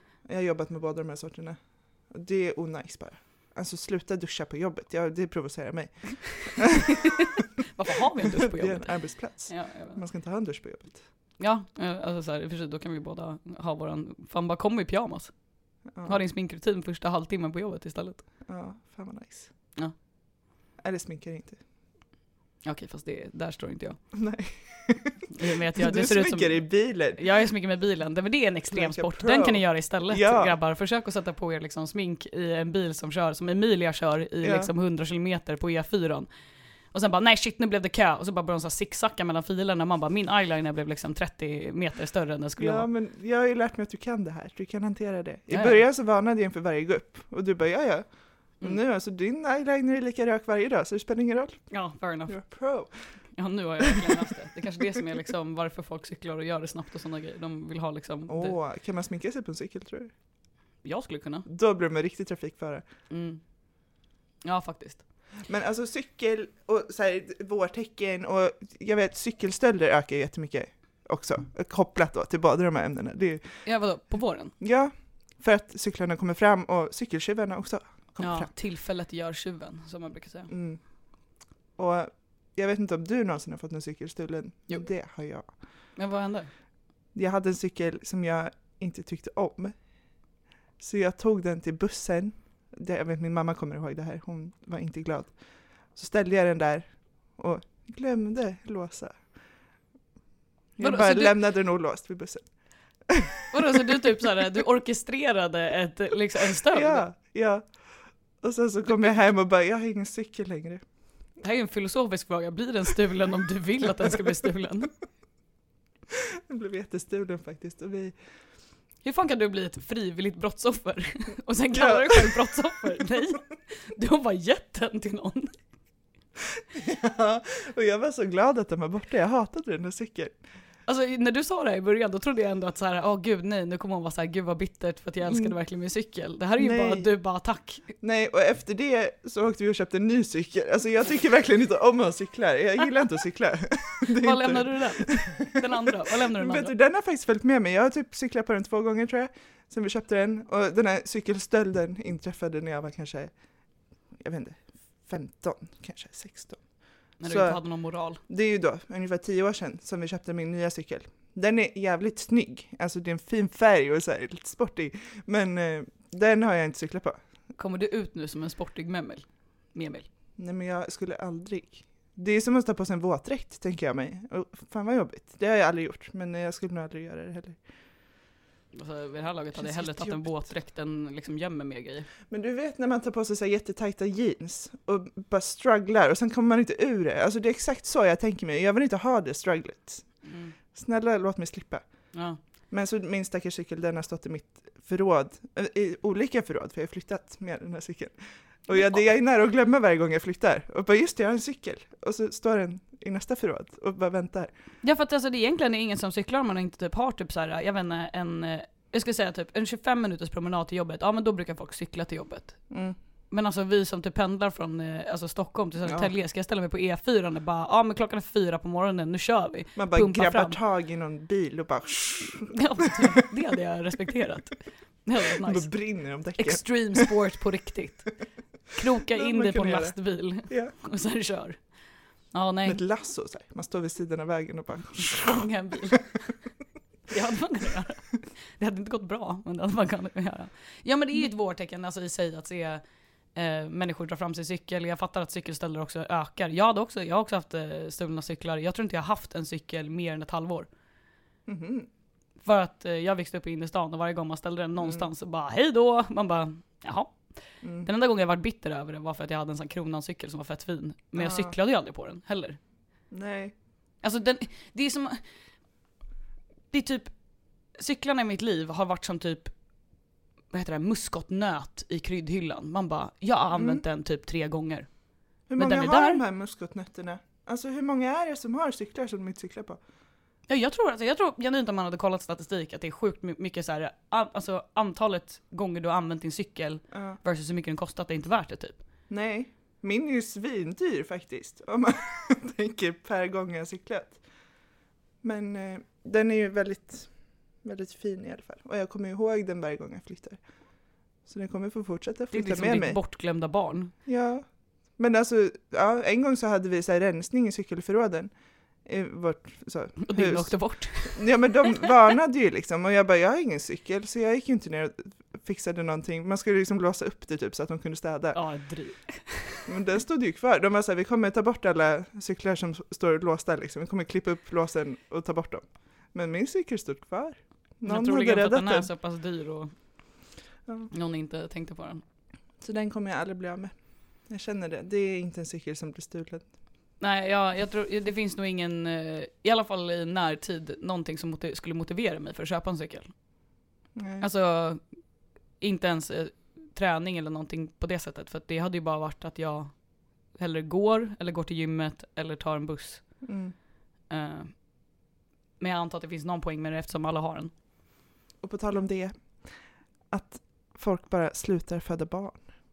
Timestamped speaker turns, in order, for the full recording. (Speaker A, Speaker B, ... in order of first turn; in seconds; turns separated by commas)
Speaker A: 0.2-6.7, Speaker B: 7.7-10.0, Speaker A: 8.5-11.1, Speaker B: 11.4-18.3, Speaker A: 15.9-16.2, Speaker A: 18.5-19.8, Speaker A: 20.8-21.6, Speaker B: 22.6-24.2, Speaker A: 24.1-27.3, Speaker B: 25.3-36.3, Speaker A: 28.7-30.6, Speaker A: 34.4-34.7, Speaker B: 36.9-42.9, Speaker A: 42.6-53.2, Speaker B: 45.5-45.8, Speaker B: 51.7-52.8, Speaker B: 53.3-58.6, Speaker A: 58.3-60.1, Speaker B: 60.8-61.5, Speaker A: 61.5-62.8, Speaker B: 63.1-65.1, Speaker A: 65.5-78.5, Speaker B: 73.7-74.5, Speaker B: 78.2-80.5, Speaker A: 80.5-85.7, Speaker B: 85.5-86.5, Speaker A: 87.1-99.4, Speaker A: 100.8-103.4, Speaker B: 100.8-101.4, Speaker B: 103.5-107.1, Speaker A: 106.7-110.8, Speaker B: 108.9-109.2, Speaker B: 111.4-115.0, Speaker A: 116.5-118.2, Speaker B: 119.0-125.5, Speaker A: 121.7-122.6, Speaker A: 126.7-130.4, Speaker B: 130.9-137.9, Speaker A: 135.2-135.6, Speaker A: 136.6-137.1, Speaker A: 138.0-145.6, Speaker B: 144.1-146.7, Speaker A: 146.3-167.2, Speaker B: 157.2-158.2, Speaker B: 167.6-170.1, Speaker A: 170.4-177.6, Speaker B: 178.7-182.1, Speaker A: 179.6-180.5, Speaker A: 182.3-204.5, Speaker B: 190.2-190.6, Speaker B: 192.1-192.4, Speaker B: 198.7-199.1, Speaker B: 204.8-220.6, Speaker A: 212.7-213.0, Speaker A: 215.8-216.1, Speaker A: 219.8-223.2, Speaker B: 222.5-231.8, Speaker A: 225.4-227.2, Speaker A: 229.1-230.7, Speaker B: 232.3-232.8, Speaker A: 232.7-235.5, Speaker B: 235.1-236.3, Speaker B: 237.1-242.8, Speaker B: 243.3-250.7, Speaker A: 251.5-251.9, Speaker B: 252.4-262.6, Speaker A: 254.8-255.1, Speaker A: 257.6-257.9, Speaker A: 261.1-261.6, Speaker A: 263.1-263.5, Speaker B: 264.0-265.2, Speaker B: 266.7-269.7, Speaker B: 270.5-276.2, Speaker A: 273.5-273.8, Speaker A: 275.5-279.8, Speaker B: 280.5-288.8, Speaker A: 286.9-287.2, Speaker A: 289.1-294.2, Speaker A: 295.2-303.0, Speaker B: 302.3-303.9, Speaker A: 304.1-318.4, Speaker B: 310.0-311.4, Speaker B: 318.3-319.6, Speaker A: 319.7-328.9, Speaker B: 327.8-332.0, Speaker A: 330.6-330.9, Speaker A: 332.6-336.5, Speaker B: 337.0-343.7, Speaker A: 343.9-344.3, Speaker B: 344.2-345.0, Speaker B: 345.6-353.4, Speaker A: 353.2-353.6, Speaker B: 354.1-355.0, Speaker B: 355.6-357.6, Speaker A: 358.4-362.5